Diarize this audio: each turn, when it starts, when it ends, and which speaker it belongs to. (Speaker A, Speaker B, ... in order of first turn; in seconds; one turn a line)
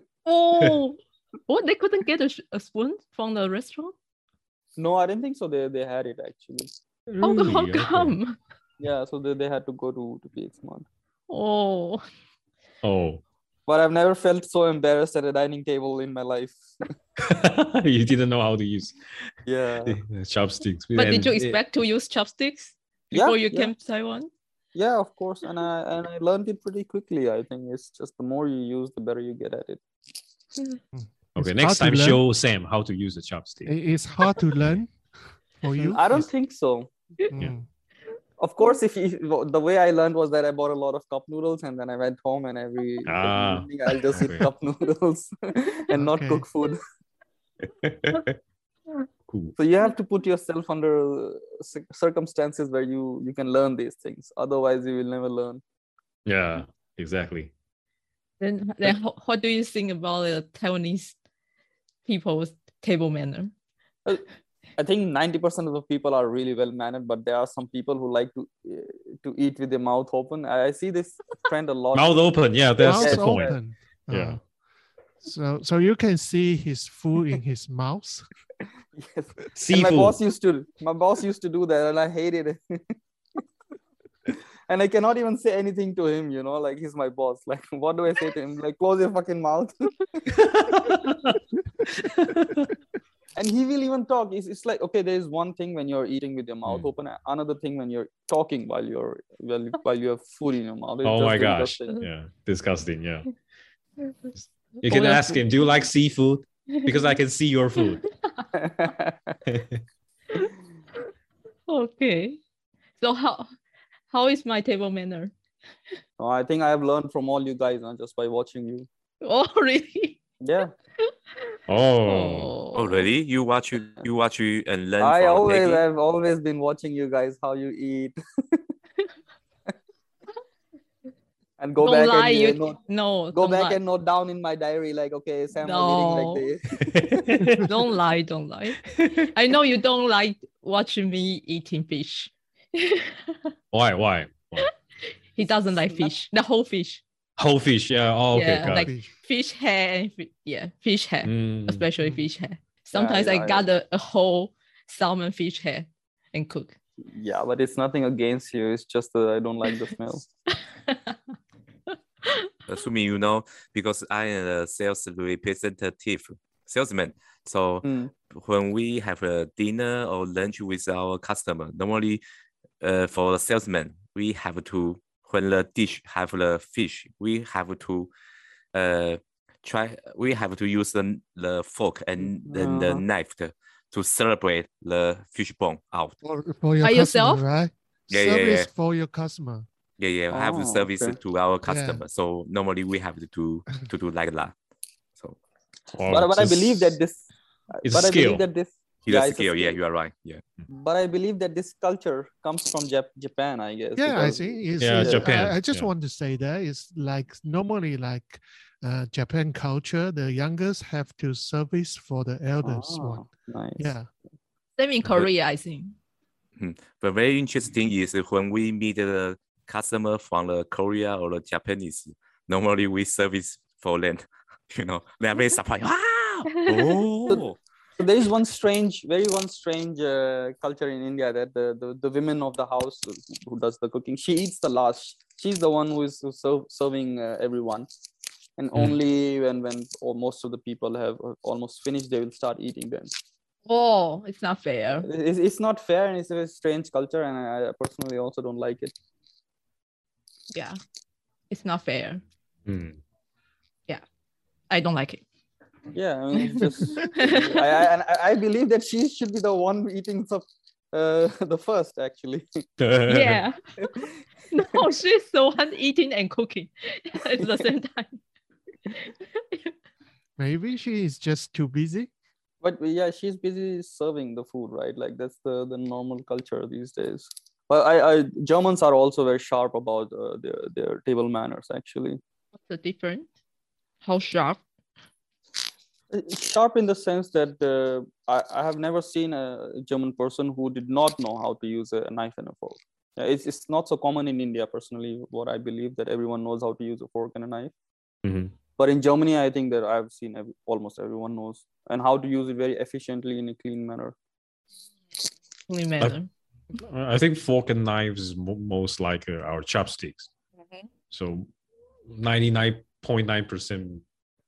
Speaker A: 0.3-4.0
Speaker B: 4.8-6.7
Speaker C: 7.1-8.2
Speaker A: 7.2-8.4
Speaker B: 8.8-10.9
Speaker A: 11.3-12.0
Speaker C: 12.8-13.2
Speaker B: 13.7-16.6
Speaker C: 17.2-19.0
Speaker B: 19.5-20.0
Speaker C: 19.9-21.6
Speaker A: 20.9-24.3
Speaker B: 23.1-23.7
Speaker B: 24.7-29.8
Speaker D: 30.9-32.2
Speaker C: 31.4-33.7
Speaker D: 33.7-34.9
Speaker D: 35.6-36.3
Speaker B: 35.8-36.9
Speaker D: 37.3-37.6
Speaker B: 38.4-46.8
Speaker C: 43.0-44.5
Speaker D: 45.9-46.4
Speaker C: 47.8-48.4
Speaker C: 49.3-49.5
Speaker B: 49.6-55.6
Speaker C: 56.3-57.5
Speaker A: 58.4-61.2
Speaker A: 62.1-63.5
Speaker B: 64.8-73.6
Speaker C: 71.9-73.5
Speaker D: 72.8-74.4
Speaker C: 74.1-74.4
Speaker D: 75.2-78.3
Speaker B: 79.0-83.4
Speaker C: 79.6-80.2
Speaker B: 84.3-90.2
Speaker C: 90.4-91.4
Speaker C: 92.0-92.7
Speaker B: 93.4-102.0
Speaker C: 101.0-103.3
Speaker C: 104.4-108.0
Speaker A: 104.8-105.4
Speaker A: 106.7-107.2
Speaker A: 108.1-108.5
Speaker B: 108.5-109.4
Speaker C: 109.5-109.8
Speaker A: 111.7-112.4
Speaker A: 113.0-113.5
Speaker A: 114.1-115.3
Speaker B: 116.2-118.9
Speaker A: 119.2-120.2
Speaker B: 120.4-120.7
Speaker C: 121.7-122.5
Speaker A: 122.0-123.1
Speaker E: 122.7-125.8
Speaker B: 125.0-128.6
Speaker B: 131.6-132.8
Speaker A: 131.8-133.8
Speaker B: 133.3-137.4
Speaker A: 135.6-136.5
Speaker C: 136.8-137.7
Speaker A: 137.6-143.4
Speaker C: 139.0-139.3
Speaker C: 143.7-144.7
Speaker A: 145.3-147.0
Speaker C: 147.4-148.9
Speaker A: 148.3-156.8
Speaker D: 148.6-149.1
Speaker C: 151.2-151.8
Speaker B: 152.9-153.7
Speaker B: 157.1-160.2
Speaker A: 160.9-161.2
Speaker E: 162.7-172.2
Speaker B: 167.8-168.1
Speaker E: 172.8-178.1
Speaker E: 178.7-186.2
Speaker B: 182.3-183.1
Speaker D: 186.2-189.7
Speaker A: 186.8-187.4
Speaker E: 188.1-188.7
Speaker E: 190.0-194.5
Speaker B: 190.3-191.2
Speaker D: 191.7-192.0
Speaker C: 196.0-197.0
Speaker B: 196.1-197.2
Speaker B: 197.7-199.8
Speaker C: 197.8-198.4
Speaker E: 199.1-200.4
Speaker B: 200.7-205.3
Speaker D: 204.0-213.2
Speaker C: 204.8-205.9
Speaker B: 212.6-213.9
Speaker D: 213.8-214.1
Speaker A: 214.8-216.0
Speaker E: 216.6-227.6
Speaker A: 226.6-227.0
Speaker B: 228.0-237.9
Speaker B: 238.6-243.1
Speaker A: 243.7-245.1
Speaker B: 245.0-248.9
Speaker A: 250.5-250.8
Speaker A: 251.5-252.2
Speaker C: 252.7-253.0
Speaker A: 254.7-255.2
Speaker B: 255.9-262.5
Speaker A: 256.4-257.7
Speaker C: 262.8-263.4
Speaker A: 263.1-263.6
Speaker A: 264.5-268.2
Speaker B: 267.4-267.6
Speaker A: 269.0-269.7
Speaker D: 270.4-272.1
Speaker B: 272.6-282.2
Speaker A: 282.6-283.3
Speaker A: 284.0-284.6
Speaker B: 286.1-297.7
Speaker C: 298.2-298.5
Speaker B: 298.8-304.1
Speaker A: 305.7-306.3
Speaker C: 306.8-310.3
Speaker C: 311.1-311.5
Speaker C: 312.1-314.0